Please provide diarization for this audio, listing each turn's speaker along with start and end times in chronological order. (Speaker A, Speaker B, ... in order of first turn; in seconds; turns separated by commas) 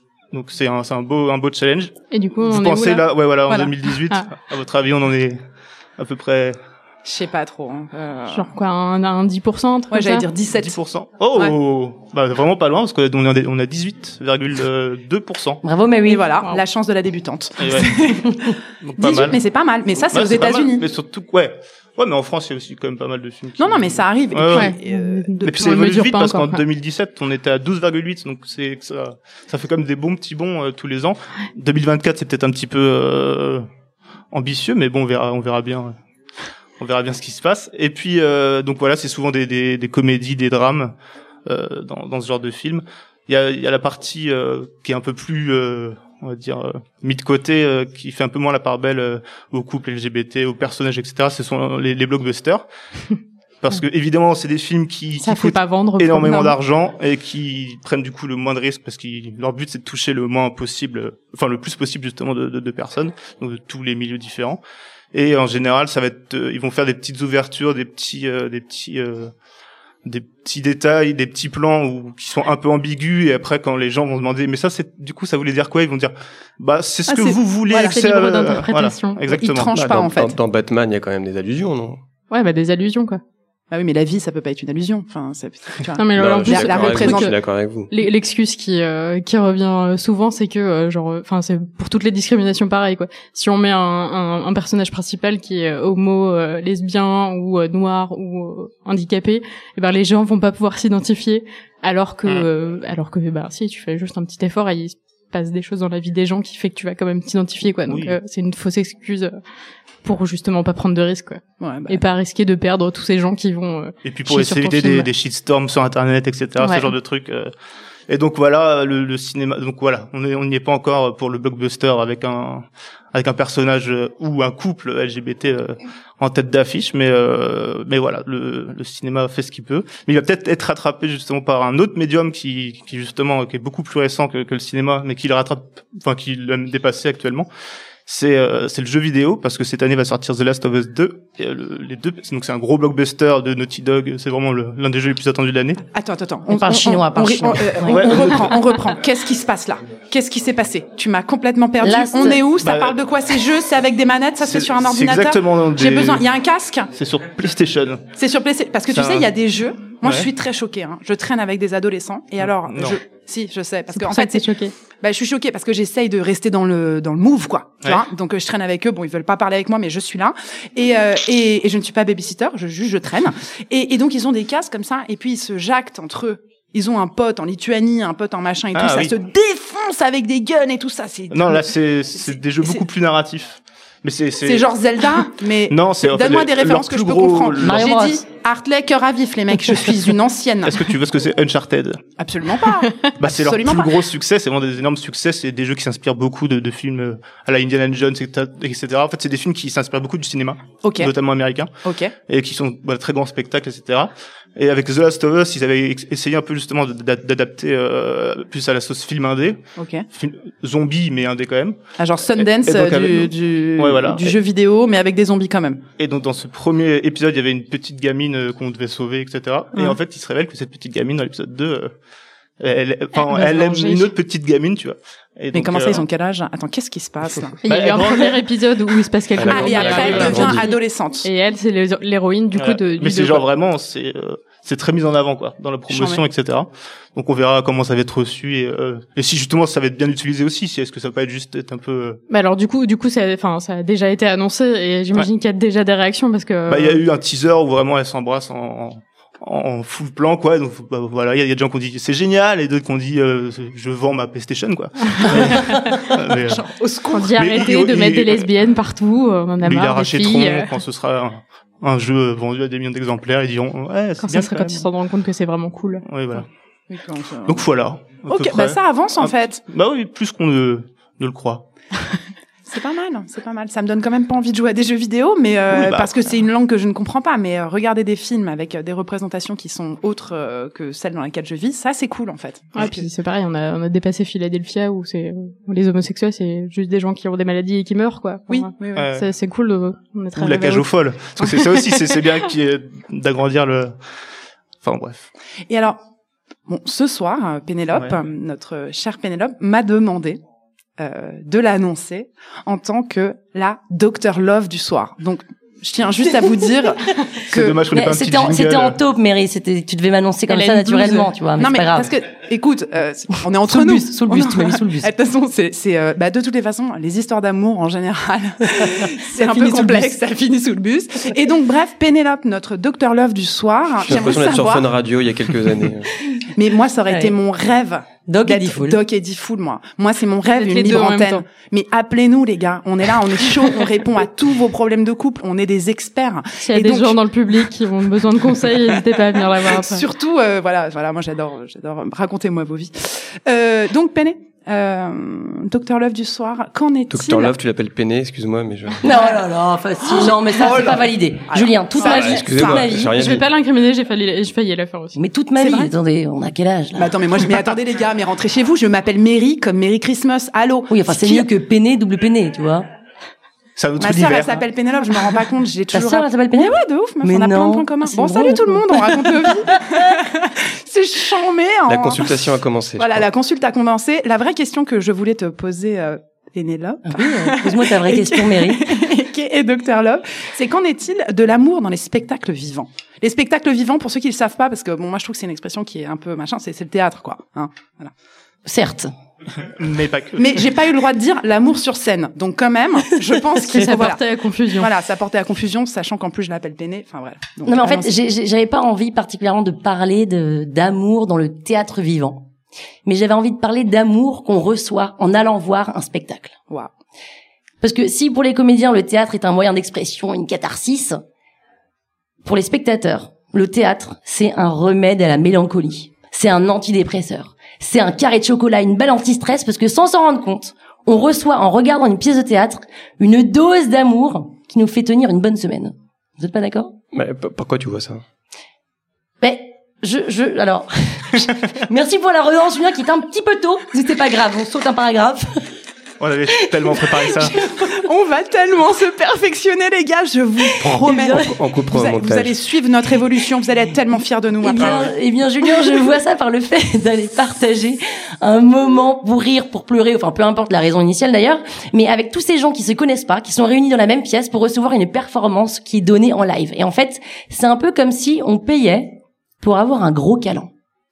Speaker A: 0.3-5.4, Speaker B: 2.1-3.1, Speaker A: 6.0-6.6, Speaker C: 7.0-8.5, Speaker B: 8.3-10.3, Speaker C: 9.9-10.8, Speaker A: 10.5-15.6, Speaker D: 15.6-16.2, Speaker C: 16.1-20.9, Speaker A: 17.6-18.0, Speaker A: 18.8-19.4, Speaker A: 20.1-24.7, Speaker C: 23.6-25.5, Speaker B: 24.5-26.6, Speaker A: 25.4-33.7, Speaker A: 34.3-36.0, Speaker A: 36.8-40.9, Speaker A: 41.5-52.6, Speaker A: 53.6-64.6, Speaker B: 55.2-56.6, Speaker A: 65.1-69.3, Speaker A: 70.0-79.7, Speaker C: 77.1-78.0, Speaker B: 77.8-79.2, Speaker C: 79.3-80.4, Speaker E: 79.7-82.0, Speaker B: 82.3-83.2, Speaker C: 83.7-87.3, Speaker B: 86.0-87.3, Speaker E: 86.2-87.9, Speaker B: 87.9-109.4, Speaker A: 107.9-108.2, Speaker B: 110.0-115.1, Speaker C: 111.6-112.0, Speaker A: 114.0-117.5, Speaker B: 116.6-116.9, Speaker A: 118.1-137.5, Speaker A: 138.1-145.8, Speaker C: 145.9-156.9, Speaker D: 146.5-148.2, Speaker A: 147.8-148.6, Speaker D: 151.8-152.4, Speaker A: 152.6-153.0, Speaker A: 154.4-156.3, Speaker A: 156.9-158.1, Speaker C: 158.2-164.5, Speaker A: 158.9-159.3, Speaker A: 160.0-160.3, Speaker A: 162.4-163.0, Speaker B: 163.9-164.7, Speaker C: 165.0-181.7, Speaker A: 178.7-179.1, Speaker A: 181.3-184.7, Speaker C: 182.3-182.8, Speaker C: 184.4-190.8, Speaker A: 185.7-187.9, Speaker D: 187.6-188.2, Speaker A: 190.7-192.0, Speaker C: 192.2-194.0, Speaker A: 193.2-201.7, Speaker C: 200.8-201.1, Speaker C: 201.8-202.1, Speaker A: 202.3-209.6, Speaker C: 209.8-210.1, Speaker A: 210.1-211.8, Speaker C: 212.0-215.8, Speaker A: 212.3-214.4, Speaker A: 216.0-221.9, Speaker A: 222.6-226.1, Speaker B: 223.2-224.1, Speaker C: 225.5-227.6, Speaker B: 227.6-233.4, Speaker A: 227.7-228.4, Speaker E: 229.4-230.7, Speaker C: 229.5-231.3, Speaker A: 229.6-230.5, Speaker A: 232.6-242.2, Speaker C: 235.9-236.2, Speaker B: 242.3-247.0, Speaker A: 246.7-256.6, Speaker B: 255.2-255.8, Speaker C: 256.5-257.4, Speaker B: 257.1-260.8, Speaker A: 257.4-258.5, Speaker A: 259.6-264.9, Speaker B: 264.2-266.1, Speaker A: 266.1-266.5, Speaker C: 266.9-267.7, Speaker A: 267.5-271.7, Speaker C: 268.3-269.6, Speaker C: 272.7-283.1, Speaker A: 275.7-276.2, Speaker B: 282.8-292.1, Speaker C: 288.5-289.1, Speaker A: 289.0-289.3, Speaker A: 290.4-293.9, Speaker A: 294.8-295.3, Speaker C: 295.7-296.0, Speaker C: 296.7-300.4, Speaker C: 301.0-307.9, Speaker A: 307.5-309.0, Speaker D: 307.9-312.1, Speaker B: 310.5-311.3, Speaker C: 311.6-324.9, Speaker D: 313.7-315.1, Speaker D: 319.0-320.1, Speaker E: 324.0-326.1, Speaker C: 326.4-337.2, Speaker D: 327.1-327.4, Speaker D: 328.3-329.0, Speaker B: 330.5-331.4, Speaker B: 336.6-340.1, Speaker C: 339.6-347.5, Speaker E: 347.1-349.1, Speaker D: 349.0-353.2, Speaker C: 350.0-352.9, Speaker E: 352.1-353.4, Speaker B: 353.0-355.2, Speaker D: 355.1-357.2, Speaker C: 355.6-355.9, Speaker C: 356.9-361.5, Speaker D: 360.9-362.9, Speaker A: 363.8-364.6, Speaker C: 364.0-372.4, Speaker D: 365.9-370.0, Speaker E: 371.9-373.3, Speaker C: 373.0-388.1, Speaker D: 377.1-378.9, Speaker D: 388.7-389.1, Speaker A: 389.6-390.7, Speaker C: 390.4-398.1, Speaker B: 393.6-394.9, Speaker D: 397.7-402.5, Speaker D: 403.1-406.6, Speaker D: 407.8-411.2, Speaker D: 412.4-427.0, Speaker E: 427.1-428.2, Speaker D: 429.4-435.6, Speaker A: 436.2-437.6, Speaker D: 437.1-438.0, Speaker C: 437.9-445.1, Speaker D: 440.8-441.5, Speaker E: 441.2-442.6, Speaker D: 444.6-460.7, Speaker A: 444.8-445.1